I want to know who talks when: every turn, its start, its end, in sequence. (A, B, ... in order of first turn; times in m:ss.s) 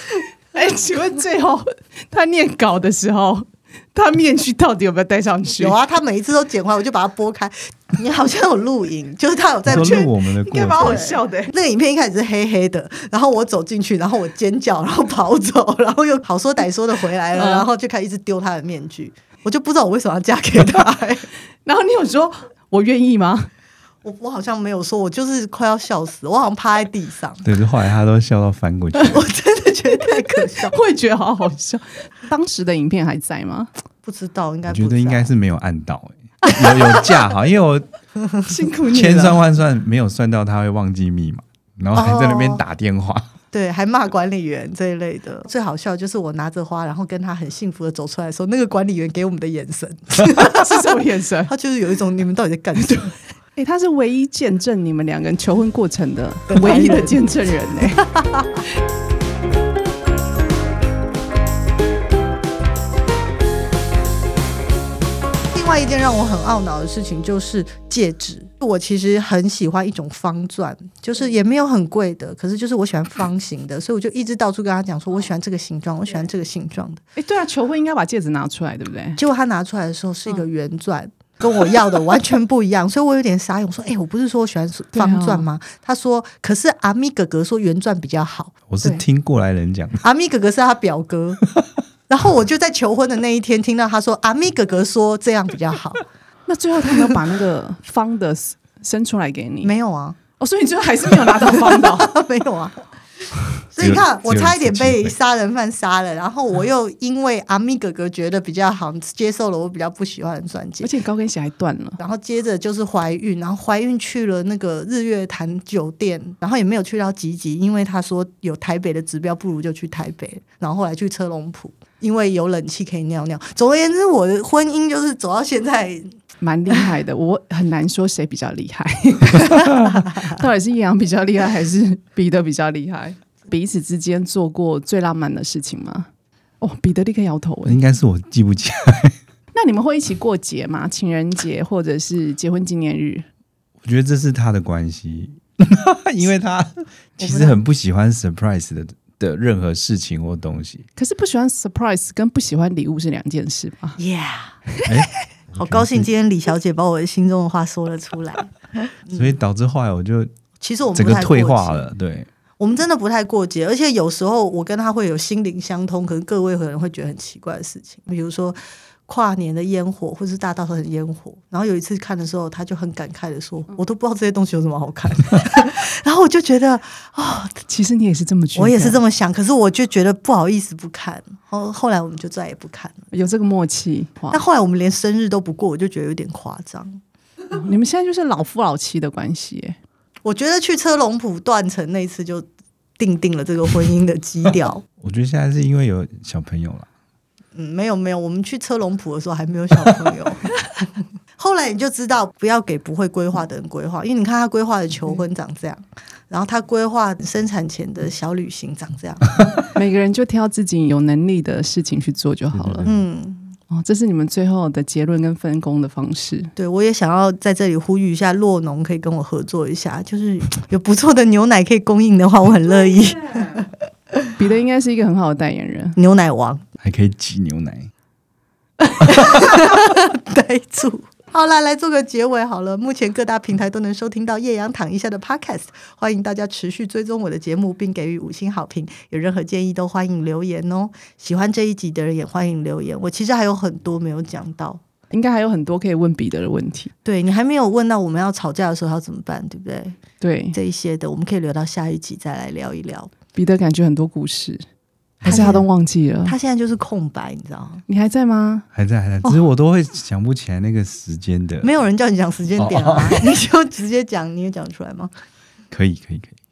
0:00.5-0:05.8 A
0:05.6-0:10.1 B
0:09.6-0:11.1 C
0:09.7-0:11.5 A
0:10.7-0:21.2 B
0:17.3-0:17.6 A
0:21.6-0:23.5 A
0:24.0-0:27.4 B
0:27.4-0:29.2 C
0:29.1-0:30.8 B
0:30.4-0:33.7 A
0:34.0-0:35.3 B
0:34.6-0:37.9 C
0:38.4-0:39.4 A
0:38.9-0:43.3 C
0:41.9-0:42.6 B
0:43.5-0:50.8 B
0:50.3-0:51.5 A
0:51.5-0:53.1 B
0:52.8-0:58.0 A
0:56.5-0:57.2 B
0:58.1-0:58.6 B
1:05.5-1:17.0 B
1:17.2-1:19.2 A
1:19.2-1:28.6 B
1:24.9-1:25.4 A
1:28.7-1:30.0 C
1:30.0-1:31.4 B
1:32.1-1:36.0 B
1:36.5-1:39.7 A
1:39.6-1:40.2 B
1:40.4-1:42.1 A
1:41.4-1:42.8 B
1:43.7-1:50.9 B
1:43.8-1:45.2 C
1:50.8-1:52.0 A
1:52.0-2:06.1 B
2:06.4-2:16.1 A
2:16.6-2:17.8 A
2:17.6-2:19.2 C
2:19.5-2:23.2 A
2:23.8-2:30.9 C
2:27.2-2:27.6 B
2:31.0-2:34.0 A
2:34.0-2:34.5 B
2:34.8-2:36.1 C
2:35.6-2:38.5 B
2:39.1-2:40.3 C
2:40.6-2:41.9 B
2:40.9-2:42.3 C
2:42.6-2:57.6 B
2:57.7-2:59.0 A
2:58.6-3:03.0 B
3:03.1-3:04.4 A
3:04.3-3:07.0 B
3:07.5-3:09.8 A
3:10.2-3:12.4 B
3:13.0-3:14.8 B
3:15.0-3:16.9 C
3:17.5-3:29.3 B
3:29.7-3:32.9 A
3:32.5-3:33.0 C
3:32.8-3:33.5 B
3:33.7-3:36.5 A
3:36.6-3:44.3 B
3:42.7-3:43.6 A
3:44.4-3:46.0 A
3:46.0-3:46.6 B
3:46.8-3:47.9 C
3:49.0-4:04.8 B
4:05.1-4:06.9 A
4:07.0-4:10.0 B
4:10.2-4:10.6 A
4:10.5-4:13.1 B
4:13.3-4:14.6 A
4:15.2-4:15.6 C
4:15.2-4:16.3 A
4:15.2-4:15.7 B
4:16.2-4:17.8 B
4:17.9-4:18.6 A
4:18.7-4:21.7 C
4:21.6-4:25.1 B
4:22.6-4:23.2 C
4:25.7-4:26.4 C